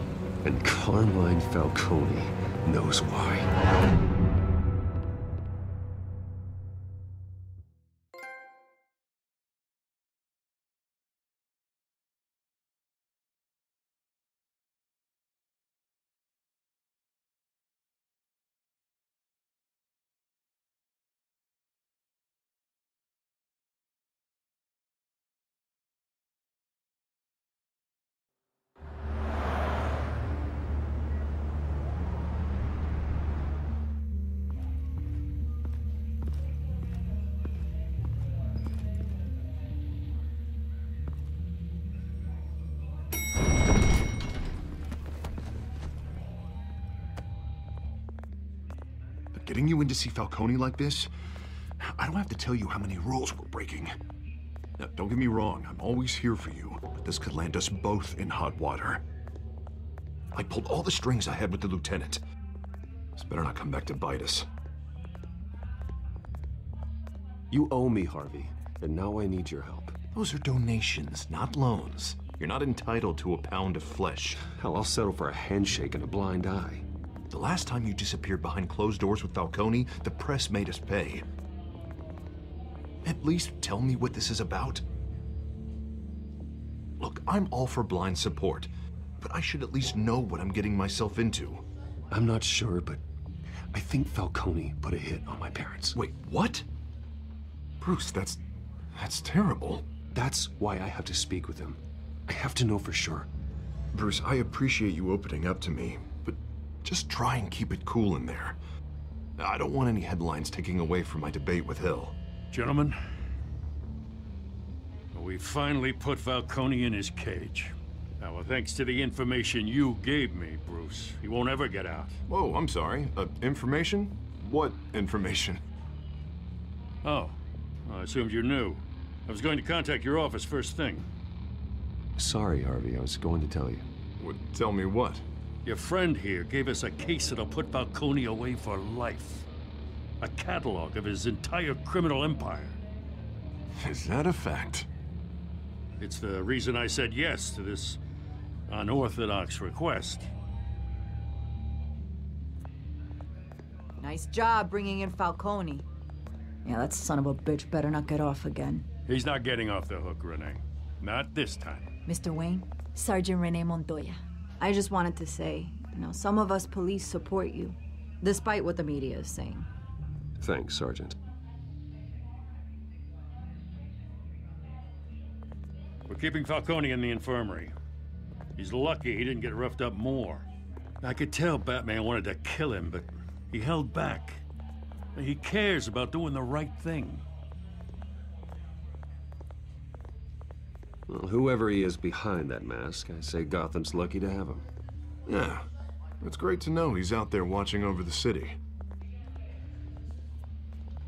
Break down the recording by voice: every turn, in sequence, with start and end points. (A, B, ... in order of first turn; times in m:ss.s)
0:00.4-0:03.5 A
0:49.3-0:51.1 B
0:51.8-0:53.9 B
0:54.8-0:59.0 B
1:00.3-1:02.2 B
1:03.2-1:04.5 B
1:07.5-1:10.0 A
1:10.1-1:14.4 B
1:14.4-1:16.9 A
1:17.3-1:21.2 B
1:23.0-1:24.8 B
1:27.0-1:31.6 B
1:32.1-1:33.0 A
1:33.7-1:36.0 A
1:36.0-1:36.7 B
1:37.8-1:38.4 B
1:38.9-1:39.9 B
1:40.1-1:43.3 A
1:43.9-1:48.6 B
1:49.4-1:52.2 B
1:52.5-1:53.0 C
1:55.1-2:02.2 C
2:02.3-2:05.6 B
2:07.0-2:11.1 C
2:12.2-2:13.9 A
2:14.2-2:15.2 B
2:15.6-2:19.5 C
2:20.2-2:22.8 C
2:23.8-2:24.9 B
2:26.0-2:28.0 C
2:28.7-2:30.3 C
2:34.0-2:35.9 D
2:36.6-2:38.9 D
2:39.1-2:41.9 C
2:42.1-2:49.7 D
2:50.4-2:51.2 A
2:56.1-2:57.7 C
2:58.6-3:00.5 C
3:01.0-3:04.4 C
3:05.2-3:07.2 C
3:11.1-3:14.7 A
3:15.3-3:15.7 B
3:16.2-3:18.6 B